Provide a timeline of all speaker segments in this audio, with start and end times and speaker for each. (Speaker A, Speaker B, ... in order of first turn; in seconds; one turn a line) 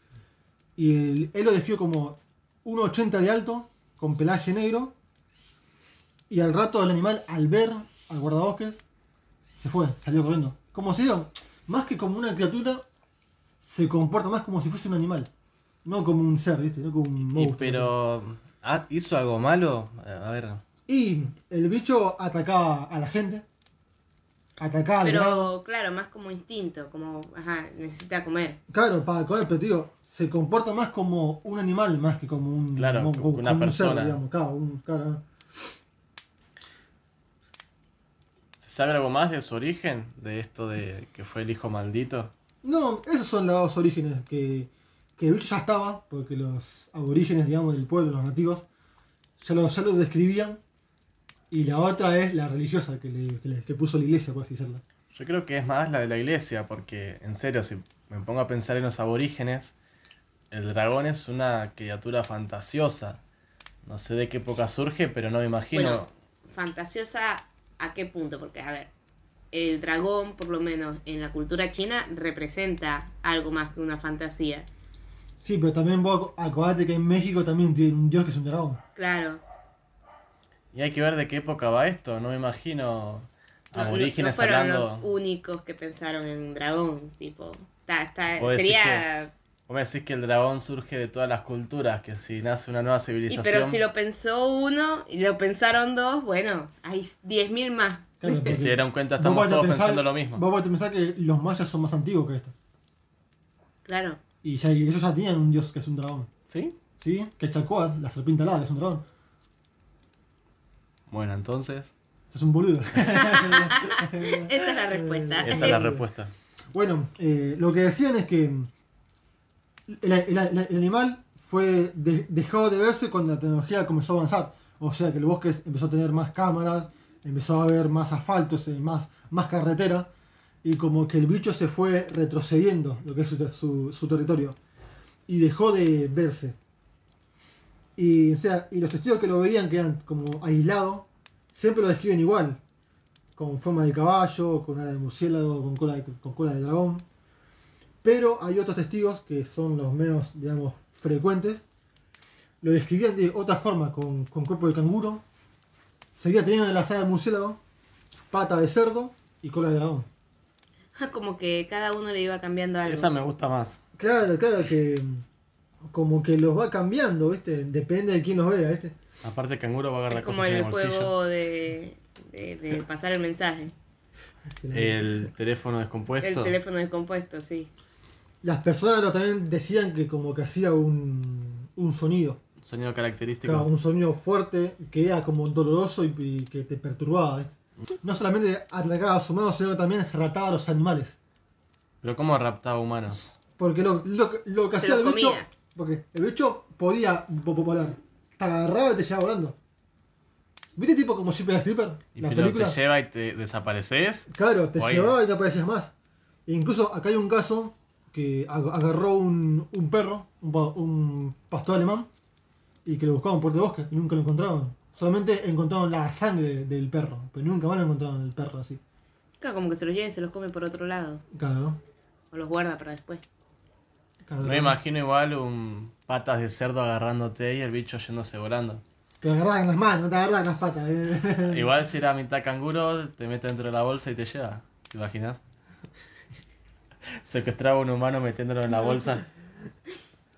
Speaker A: 0.8-4.9
Speaker A: 6.3-8.8
Speaker A: 9.6-12.8
Speaker A: 13.6-15.3
Speaker A: 15.8-17.9
Speaker B: 17.3-20.6
Speaker A: 20.9-23.4
Speaker A: 24.6-25.5
Speaker C: 25.0-28.6
Speaker A: 28.7-35.2
Speaker B: 32.8-34.2
Speaker B: 38.6-42.3
Speaker A: 42.6-48.6
Speaker A: 49.4-50.6
Speaker A: 51.5-54.8
Speaker B: 55.1-59.7
Speaker B: 60.5-63.2
Speaker B: 63.8-66.1
Speaker C: 65.7-68.9
Speaker C: 69.5-74.7
Speaker A: 75.4-78.8
Speaker C: 79.0-79.4
Speaker B: 80.7-85.0
Speaker C: 83.7-89.3
Speaker B: 88.4-89.0
Speaker B: 89.7-93.8
Speaker C: 93.3-98.6
Speaker A: 98.2-102.5
Speaker B: 98.5-100.4
Speaker C: 103.8-104.2
Speaker A: 104.4-106.3
Speaker B: 106.5-106.8
Speaker A: 107.0-109.0
Speaker B: 111.1-111.9
Speaker A: 112.3-116.0
Speaker C: 113.1-115.8
Speaker B: 115.4-116.3
Speaker A: 116.7-118.7
Speaker A: 119.9-130.1
Speaker A: 130.6-134.6
Speaker A: 135.3-136.6
Speaker A: 137.9-142.6
Speaker A: 143.3-147.1
Speaker A: 148.0-151.6
Speaker A: 152.6-155.2
Speaker A: 156.2-157.6
Speaker A: 158.3-160.1
Speaker C: 160.9-163.1
Speaker B: 162.9-163.8
Speaker A: 164.0-165.2
Speaker A: 165.8-168.9
Speaker B: 169.2-171.1
Speaker C: 170.1-173.7
Speaker A: 174.6-175.3
Speaker B: 174.7-176.6
Speaker C: 176.2-177.7
Speaker A: 178.4-182.4
Speaker B: 182.6-183.7
Speaker A: 183.4-191.2
Speaker B: 192.0-193.3
Speaker A: 193.6-199.6
Speaker C: 194.8-195.5
Speaker A: 200.8-202.8
Speaker B: 202.2-205.1
Speaker A: 204.3-205.9
Speaker A: 206.5-212.1
Speaker A: 212.8-218.8
Speaker C: 219.4-221.2
Speaker A: 221.3-221.8
Speaker C: 222.3-223.2
Speaker A: 224.2-224.8
Speaker B: 224.4-228.8
Speaker A: 229.2-231.7
Speaker B: 231.5-235.4
Speaker B: 237.2-239.2